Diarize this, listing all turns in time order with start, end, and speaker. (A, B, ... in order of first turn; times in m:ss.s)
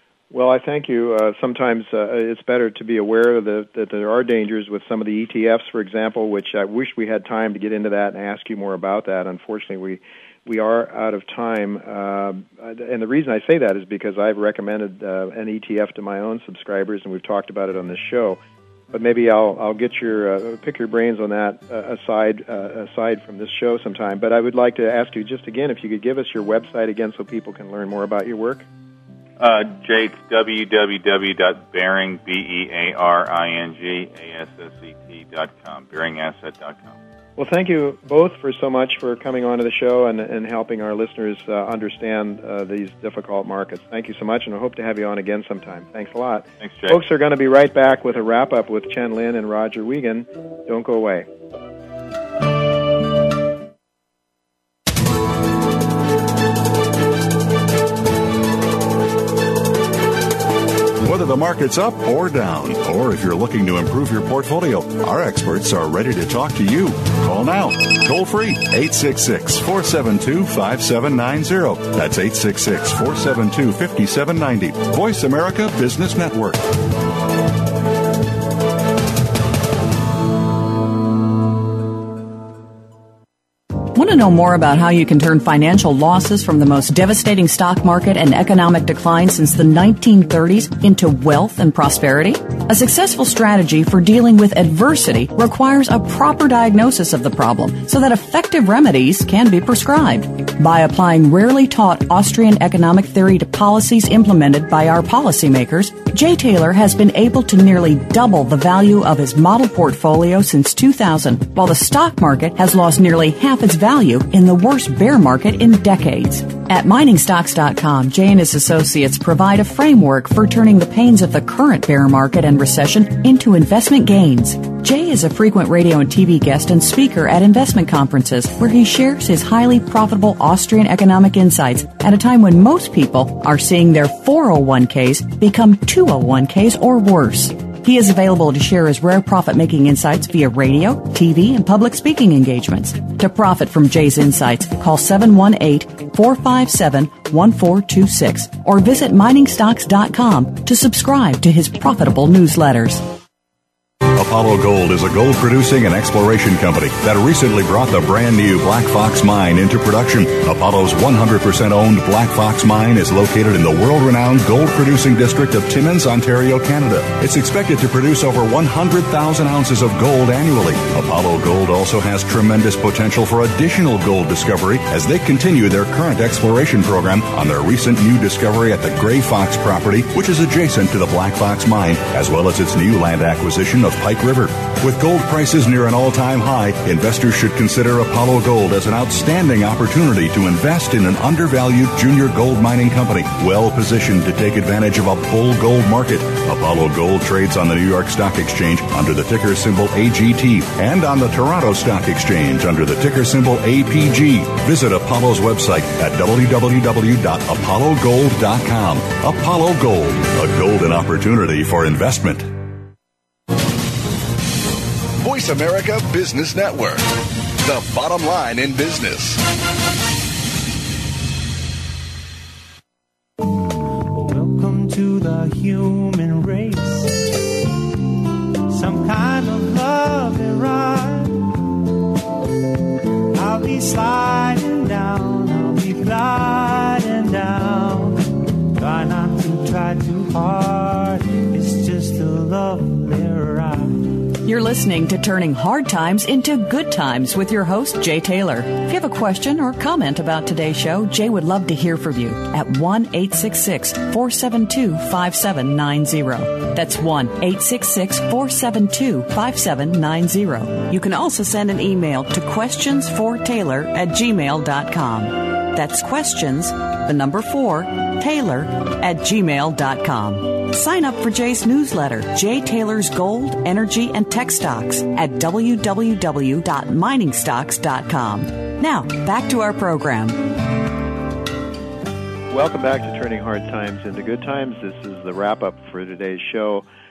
0:00.3-0:18.4 A
0:18.9-0:28.7 A
0:29.4-0:37.0 B
0:37.4-0:51.3 A
0:46.6-0:47.0 B
1:01.0-1:16.6 C
1:23.9-2:33.0 D
2:34.0-3:32.5 C
3:35.2-3:37.1 E
3:37.6-3:39.4 E
3:44.1-3:47.4 F
3:48.7-3:51.8 F
3:53.3-4:04.1 F
4:04.4-4:40.5 D
4:42.5-4:46.8 A